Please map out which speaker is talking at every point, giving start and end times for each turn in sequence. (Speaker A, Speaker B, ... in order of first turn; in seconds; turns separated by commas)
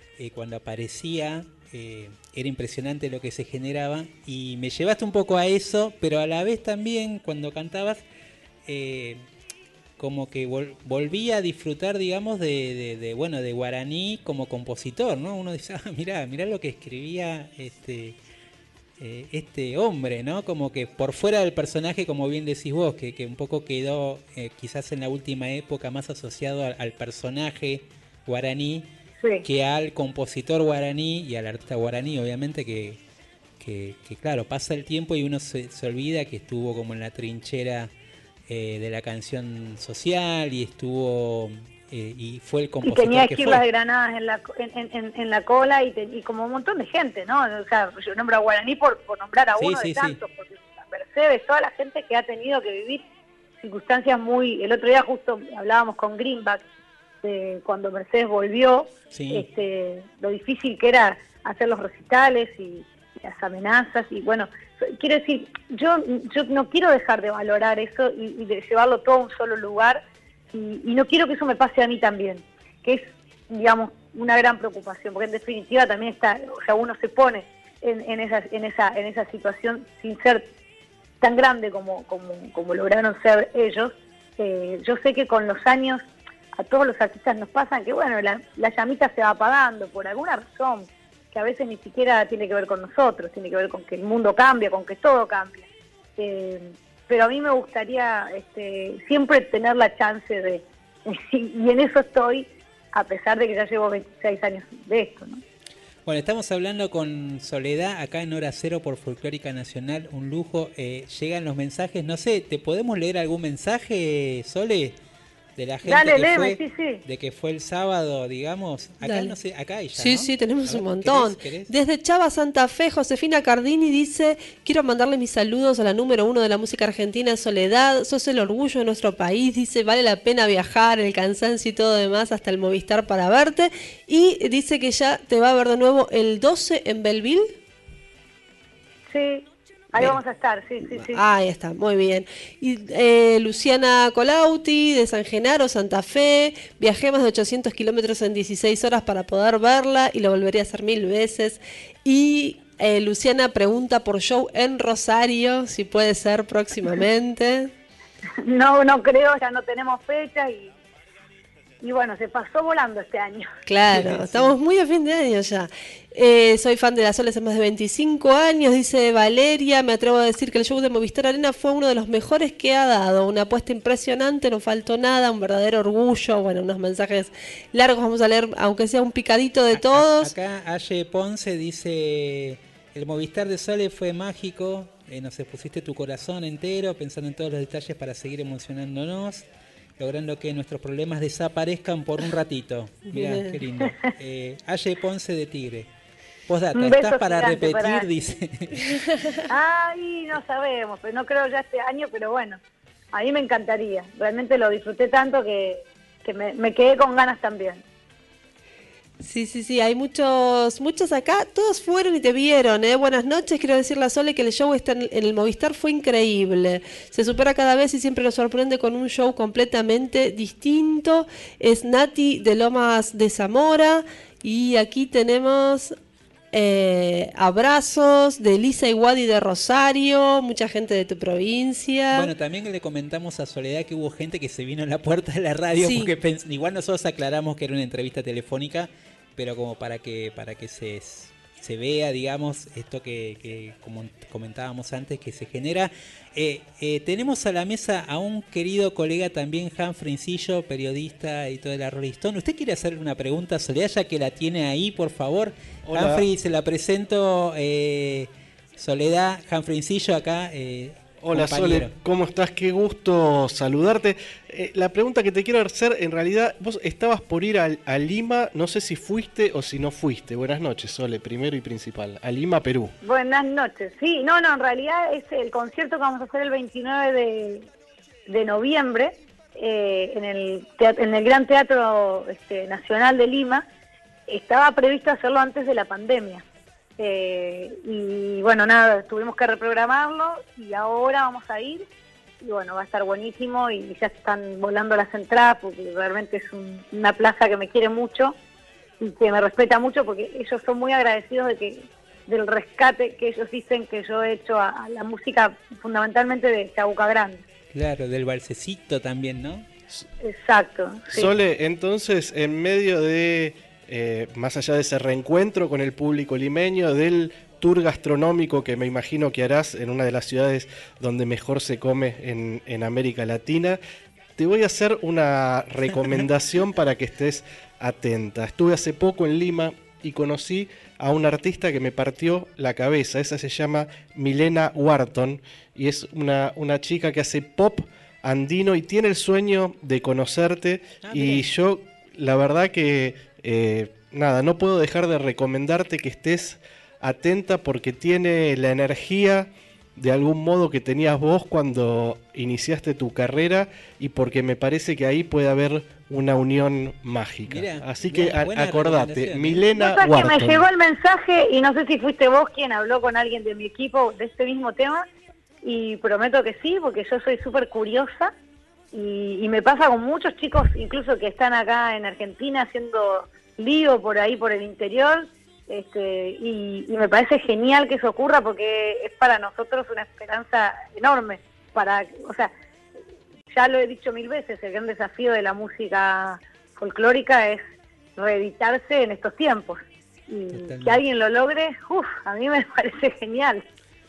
Speaker A: 0.2-8.0, Speaker A: 8.7-9.2, Speaker A: 10.0-18.2, Speaker A: 19.0-28.9, Speaker A: 29.4-33.0, Speaker A: 33.6-37.9, Speaker A: 38.5-43.6, Speaker B: 42.8-53.0, Speaker A: 49.6-50.2, Speaker B: 53.6-56.6, Speaker B: 57.2-70.0, Speaker A: 59.1-59.5, Speaker B: 70.5-80.4, Speaker B: 81.2-86.0, Speaker B: 86.5-95.7, Speaker B: 96.2-105.4, Speaker A: 106.0-115.0, Speaker A: 115.6-121.7, Speaker B: 115.8-117.0, Speaker C: 119.0-119.3, Speaker C: 119.9-137.6, Speaker B: 139.1-141.2, Speaker C: 140.9-157.7, Speaker B: 158.4-160.7, Speaker B: 161.8-164.5, Speaker C: 163.7-180.3, Speaker A: 179.7-189.4, Speaker A: 190.0-195.9, Speaker C: 193.1-193.6, Speaker A: 196.5-198.9, Speaker B: 196.7-198.1, Speaker C: 199.1-199.4, Speaker B: 199.5-202.6, Speaker B: 203.1-207.8, Speaker C: 209.2-225.9, Speaker C: 226.5-232.3, Speaker A: 232.1-261.9, Speaker C: 235.8-236.1, Speaker D: 255.8-256.2, Speaker D: 261.2-272.9, Speaker B: 273.0-277.6, Speaker B: 278.3-283.6, Speaker B: 284.3-286.4, Speaker B: 287.0-291.8, Speaker B: 292.4-298.3, Speaker B: 299.0-307.4, Speaker A: 307.7-309.6, Speaker B: 310.2-311.3, Speaker D: 311.1-323.8, Speaker D: 324.4-360.6, Speaker A: 341.0-341.4, Speaker A: 357.4-359.6, Speaker B: 359.7-365.0, Speaker B: 365.6-368.3, Speaker B: 368.9-382.5, Speaker B: 383.5-387.6, Speaker B: 388.1-393.6, Speaker A: 390.5-391.0